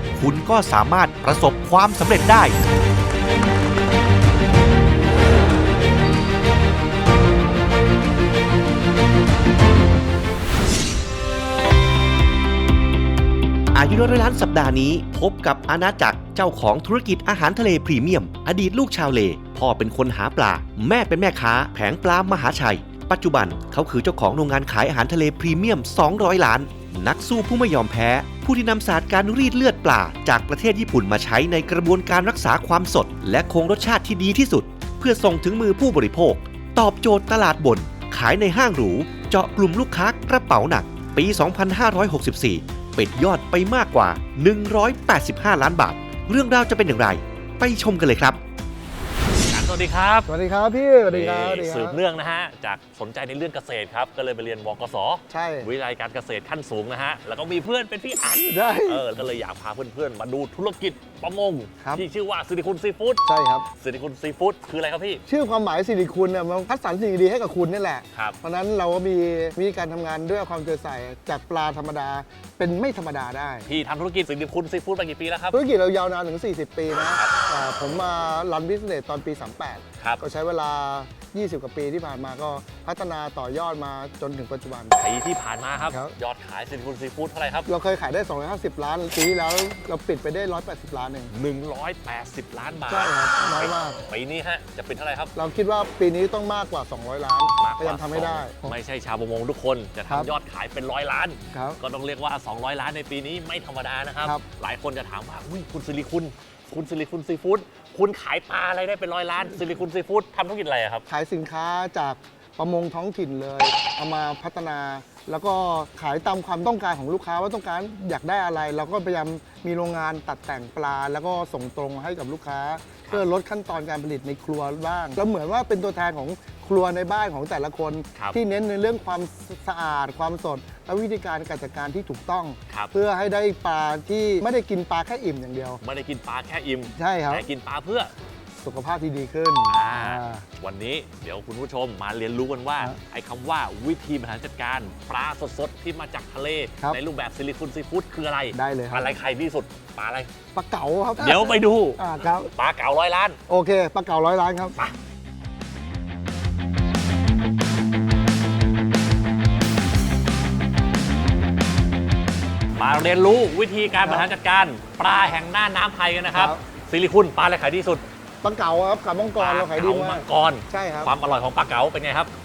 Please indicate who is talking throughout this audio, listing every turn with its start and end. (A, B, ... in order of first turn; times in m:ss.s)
0:00.2-0:02.6 A
0:13.7-0:48.4 A
0:49.5-0:50.3 B
0:50.3-0:52.0 C
0:51.1-1:03.2 B
0:55.3-0:55.7 C
0:58.5-0:59.1 C
1:03.2-1:03.6 C
1:03.8-1:05.2 B
1:05.3-1:13.6 C
1:13.7-1:15.6 B
1:15.5-1:25.0 C
1:17.1-1:17.4 B
1:25.0-1:27.7 B
1:27.7-1:31.3 C
1:31.3-1:35.3 B
1:32.9-1:34.0 C
1:35.4-1:38.7 C
1:37.6-1:51.0 B
1:41.5-1:41.8 C
1:51.1-2:15.8 C
2:15.8-2:18.1 B
2:17.0-2:17.4 C
2:18.6-2:20.4 C
2:19.7-2:30.3 B
2:28.5-2:29.1 C
2:30.5-2:32.5 C
2:31.2-2:33.4 B
2:33.5-2:34.8 C
2:42.8-2:48.0 B
2:46.3-2:46.6 C
2:48.4-2:51.1 C
2:49.4-2:52.3 B